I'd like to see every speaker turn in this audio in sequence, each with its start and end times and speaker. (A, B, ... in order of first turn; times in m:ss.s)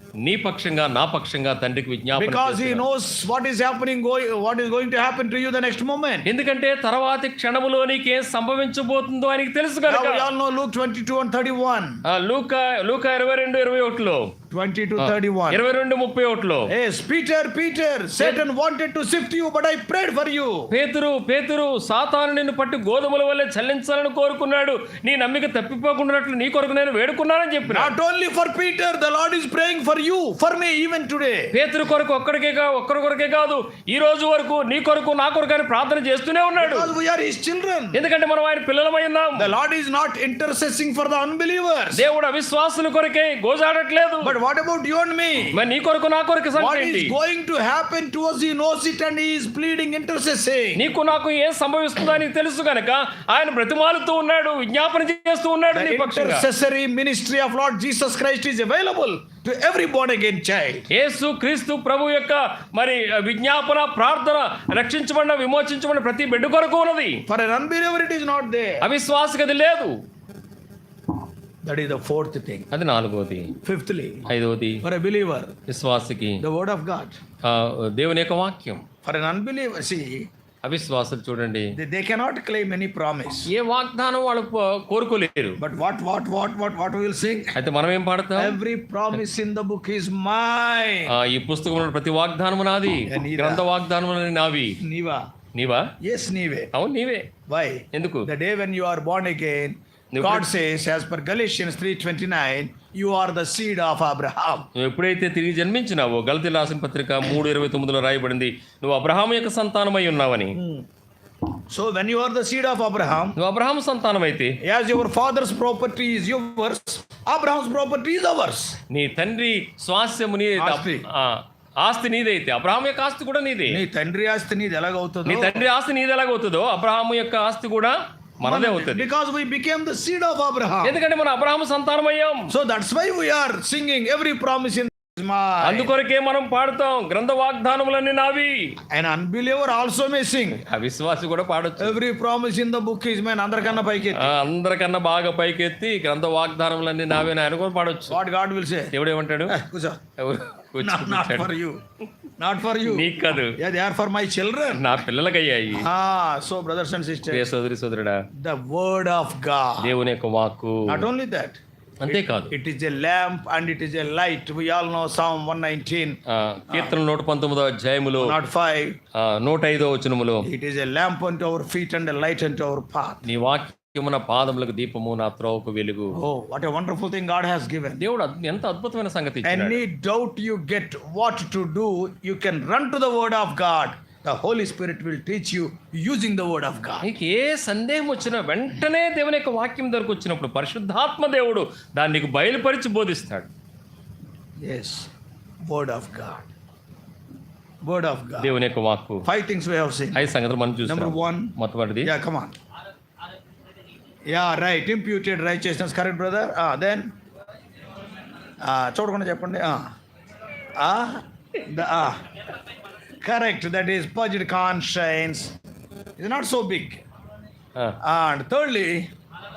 0:00.2-0:02.8 A
0:02.2-0:06.3 B
0:06.2-0:10.3 A
0:09.8-0:12.0 B
0:12.0-0:14.3 A
0:14.5-0:15.6 B
0:15.0-0:16.7 A
0:16.7-0:20.7 B
0:20.7-0:27.9 A
0:27.6-0:31.5 B
0:31.5-0:36.9 A
0:36.6-0:38.0 B
0:37.9-0:39.5 A
0:39.4-0:42.0 B
0:41.9-0:44.3 A
0:44.2-0:45.6 B
0:45.5-0:47.1 A
0:46.6-0:50.8 B
0:50.8-0:56.4 A
0:55.7-1:00.9 B
1:00.9-1:07.2 A
1:07.3-1:08.8 B
1:08.8-1:09.9 A
1:11.6-1:12.7 B
1:12.7-1:13.5 A
1:13.6-1:14.3 B
1:14.3-1:14.8 A
1:14.8-1:15.5 B
1:15.7-1:16.4 A
1:16.4-1:17.2 B
1:17.4-1:18.8 A
1:19.0-1:20.3 B
1:20.6-1:21.8 A
1:21.7-1:23.5 B
1:23.5-1:25.6 A
1:25.6-1:27.6 B
1:27.5-1:28.6 A
1:28.4-1:31.1 B
1:31.1-1:34.8 A
1:33.1-1:33.7 B
1:34.8-1:35.2 B
1:35.5-1:35.9 A
1:36.0-1:36.7 B
1:36.7-1:37.3 A
1:37.5-1:44.7 B
1:37.9-1:38.3 A
1:40.1-1:40.5 A
1:44.7-1:50.6 A
1:50.5-1:50.8 B
1:51.7-1:53.4 B
1:53.4-1:54.6 A
1:54.6-1:58.8 B
1:58.9-2:03.8 A
2:00.6-2:01.1 B
2:03.7-2:05.7 B
2:05.2-2:09.1 A
2:08.4-2:11.0 B
2:10.8-2:12.5 A
2:12.5-2:15.9 B
2:15.6-2:18.7 A
2:18.9-2:20.6 B
2:20.6-2:22.0 A
2:21.8-2:24.4 B
2:24.2-2:28.2 A
2:28.1-2:28.9 B
2:28.9-2:29.5 A
2:29.5-2:30.0 B
2:30.2-2:31.5 A
2:30.8-2:31.8 B
2:32.4-2:35.0 B
2:32.8-2:33.6 A
2:34.7-2:35.9 A
2:35.7-2:37.5 B
2:37.3-2:38.2 A
2:38.4-2:39.9 B
2:39.8-2:41.1 A
2:40.9-2:46.2 B
2:42.0-2:42.5 A
2:46.3-2:48.3 A
2:46.7-2:47.0 B
2:48.2-2:49.0 B
2:49.2-2:50.4 A
2:50.4-2:53.2 B
2:53.2-2:56.2 A
2:56.1-2:58.0 B
2:58.0-2:59.8 A
2:59.4-3:07.0 B
3:07.0-3:13.5 A
3:14.6-3:15.1 B
3:15.7-3:16.5 B
3:17.8-3:18.5 B
3:18.4-3:19.2 A
3:19.2-3:20.3 B
3:20.1-3:22.1 A
3:20.8-3:22.5 B
3:24.3-3:27.1 B
3:28.6-3:29.8 B
3:30.8-3:32.2 B
3:33.2-3:35.5 B
3:36.2-3:37.0 B
3:38.0-3:39.1 B